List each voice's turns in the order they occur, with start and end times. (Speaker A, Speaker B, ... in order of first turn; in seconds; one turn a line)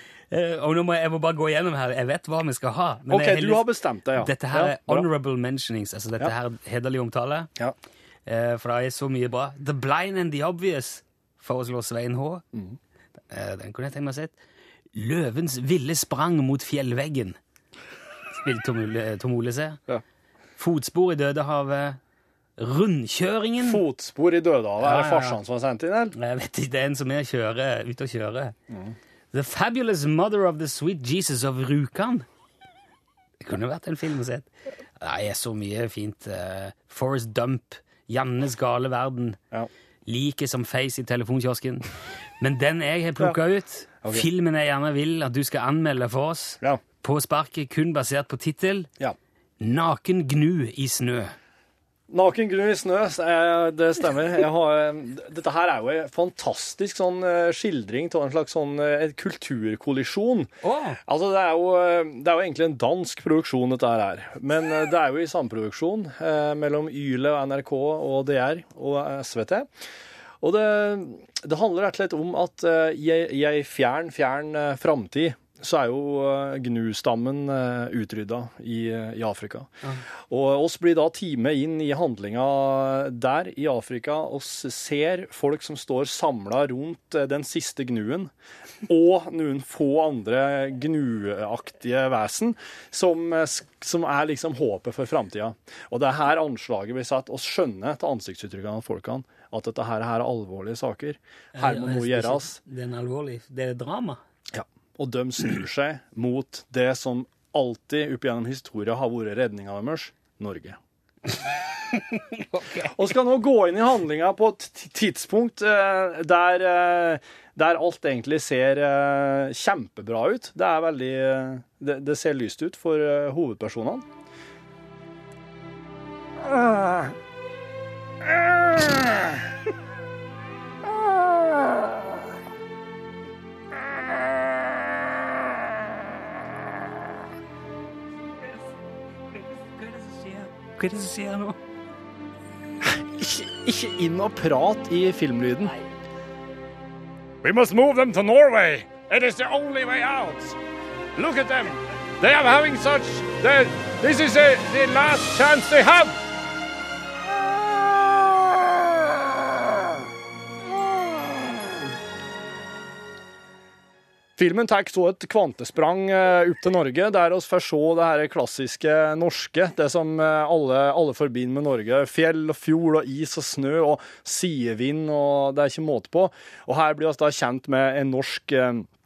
Speaker A: 0.3-7.5
Speaker B: 3.1-5.1
Speaker A: 8.3-12.4
Speaker A: 13.3-14.3
Speaker A: 14.9-17.4
Speaker A: 18.4-19.8
Speaker A: 20.6-22.0
Speaker A: 22.6-23.8
Speaker B: 23.6-26.1
Speaker A: 24.8-25.4
Speaker A: 26.1-28.6
Speaker A: 29.3-32.2
Speaker A: 33.4-34.5
Speaker A: 35.0-39.4
Speaker A: 40.0-41.9
Speaker A: 42.4-48.9
Speaker A: 49.6-51.3
Speaker B: 52.1-60.5
Speaker A: 60.6-61.0
Speaker B: 61.0-69.7
Speaker B: 70.4-79.7
Speaker B: 80.3-88.3
Speaker B: 88.8-102.6
Speaker A: 101.5-104.2
Speaker B: 104.5-110.8
Speaker A: 111.9-113.0
Speaker B: 112.8-124.0
Speaker B: 126.4-127.1
Speaker B: 128.6-129.2
Speaker A: 139.3-141.6
Speaker B: 142.8-145.7
Speaker B: 147.4-150.6
Speaker B: 151.1-156.2
Speaker B: 164.4-178.9